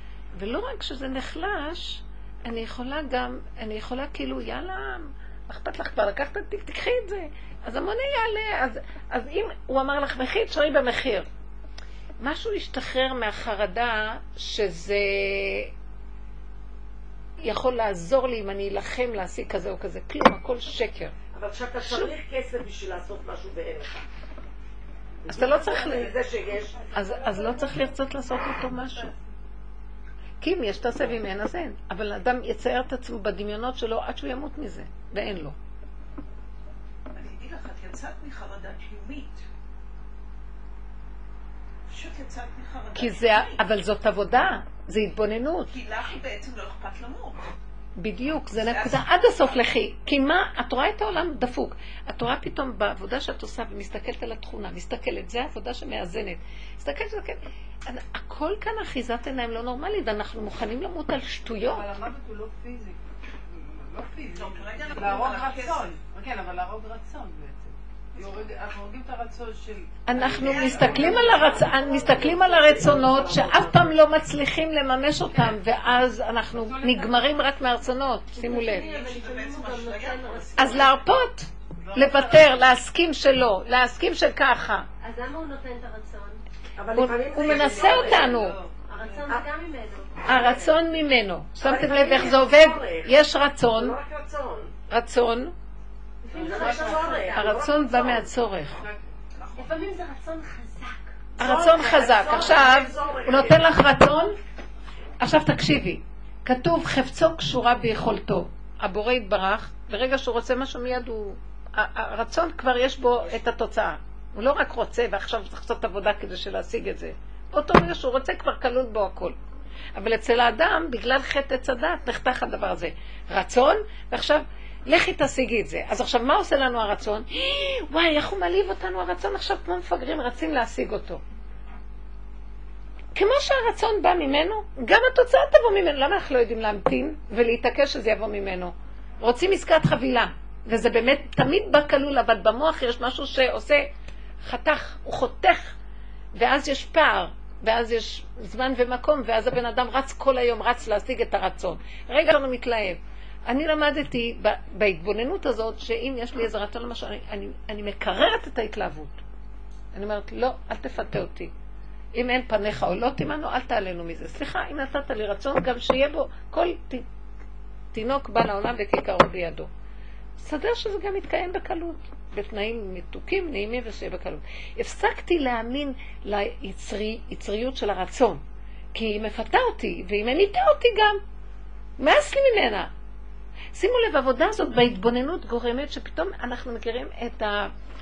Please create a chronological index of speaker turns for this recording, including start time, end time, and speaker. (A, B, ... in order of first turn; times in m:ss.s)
0:00.3-0:11.3 A
0:12.2-0:15.7 A
0:17.4-0:21.1 A
0:21.3-0:24.0 B
0:21.8-0:22.1 A
0:25.3-0:26.2 A
0:25.3-0:26.9 B
0:25.4-0:27.9 C
0:26.9-0:29.1 A
0:28.6-0:29.2 C
0:30.4-0:35.6 A
0:37.1-0:39.4 D
0:41.9-0:43.6 D
0:43.0-0:45.8 A
0:45.7-0:47.5 D
0:48.0-1:01.9 A
0:48.5-0:49.4 D
1:01.6-1:10.2 C
1:04.3-1:05.9 D
1:08.1-1:08.4 D
1:10.0-1:18.9 A
1:10.2-1:14.0 B
1:10.2-1:11.5 D
1:10.8-1:11.6 C
1:15.3-1:15.6 C
1:16.5-1:17.4 C
1:18.3-1:21.0 E
1:18.6-1:21.0 D
1:20.6-1:24.9 A
1:21.8-1:22.7 C
1:25.0-1:26.4 E
1:26.8-1:28.3 B
1:26.9-1:28.6 A
1:27.4-1:28.3 E
1:27.5-1:29.4 C
1:28.8-1:30.7 E
1:30.2-1:34.0 A
1:30.4-1:30.7 C
1:31.6-1:33.2 B
1:33.7-1:34.7 B
1:34.9-1:35.5 A
1:36.2-1:38.2 E
1:36.3-1:37.2 C
1:36.4-1:38.0 B
1:37.3-1:38.8 A
1:38.6-1:39.1 C
1:39.3-1:39.8 D
1:39.5-1:41.2 E
1:41.4-1:44.4 A
1:41.4-1:43.6 B
1:45.2-1:59.4 A
1:59.9-2:11.2 A
2:13.1-2:23.9 A
2:24.4-2:25.8 A
2:26.3-2:39.2 A
2:39.9-2:41.5 A
2:42.1-2:47.0 A
2:47.9-2:49.7 A
2:50.4-2:58.4 A
2:58.9-3:01.2 A
3:02.0-3:02.9 A
3:03.7-3:07.7 A